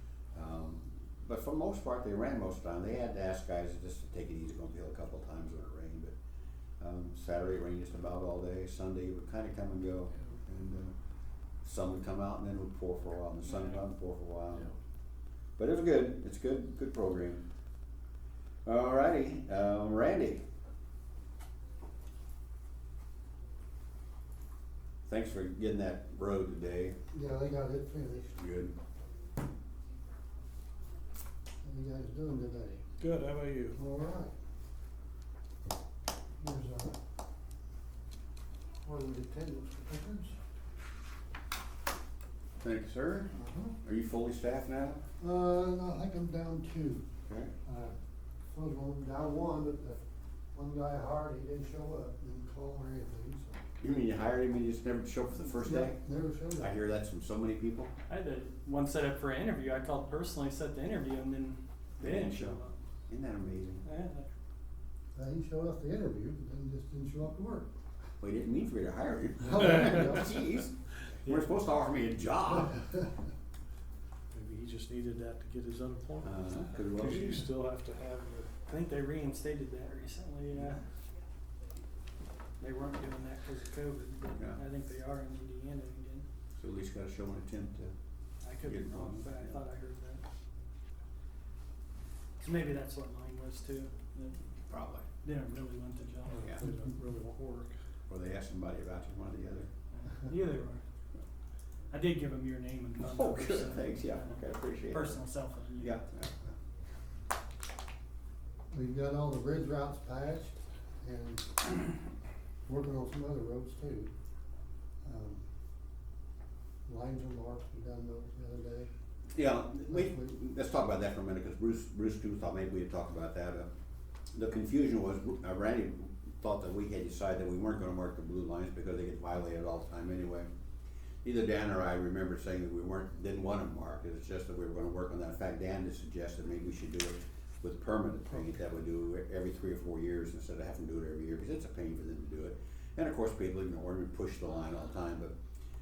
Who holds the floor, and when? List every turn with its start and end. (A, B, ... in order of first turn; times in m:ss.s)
0:00.3-0:06.1 A
0:06.8-0:10.9 A
0:11.6-0:14.7 A
0:15.6-0:17.4 A
0:18.6-0:20.4 A
0:25.1-0:27.0 A
0:27.1-0:28.4 B
0:28.4-0:28.7 A
0:31.6-0:32.8 B
0:33.0-0:33.8 C
0:33.7-0:34.3 B
0:36.4-0:37.0 B
0:38.8-0:40.3 B
0:42.6-0:45.0 A
0:43.3-0:43.8 B
0:45.2-0:47.0 B
0:47.3-0:47.5 A
0:47.6-0:47.9 B
0:48.5-0:50.0 B
0:50.5-0:53.6 B
0:53.8-0:56.0 A
0:55.6-0:56.7 B
0:56.6-0:57.9 A
0:58.1-1:02.8 D
1:02.0-1:02.6 A
1:03.1-1:03.8 A
1:03.8-1:04.3 D
1:05.1-1:07.6 B
1:08.2-1:12.8 A
1:09.4-1:10.3 B
1:14.3-1:18.6 C
1:16.2-1:17.4 A
1:18.6-1:20.8 D
1:22.6-1:26.2 D
1:26.6-1:27.9 A
1:28.4-1:30.2 D
1:28.6-1:29.6 A
1:32.4-1:34.4 D
1:34.7-1:35.0 A
1:35.2-1:36.6 D
1:36.3-1:37.8 C
1:36.3-1:36.6 A
1:38.1-1:39.7 A
1:39.9-1:40.8 D
1:41.9-1:46.0 D
1:43.0-1:45.2 A
1:45.8-1:46.3 A
1:48.7-1:51.9 B
1:52.7-1:54.1 B
1:55.0-1:55.4 B
1:56.9-1:58.9 B
1:59.3-2:03.7 A
1:59.9-2:00.3 B
2:04.3-2:10.5 A
2:11.2-2:25.3 A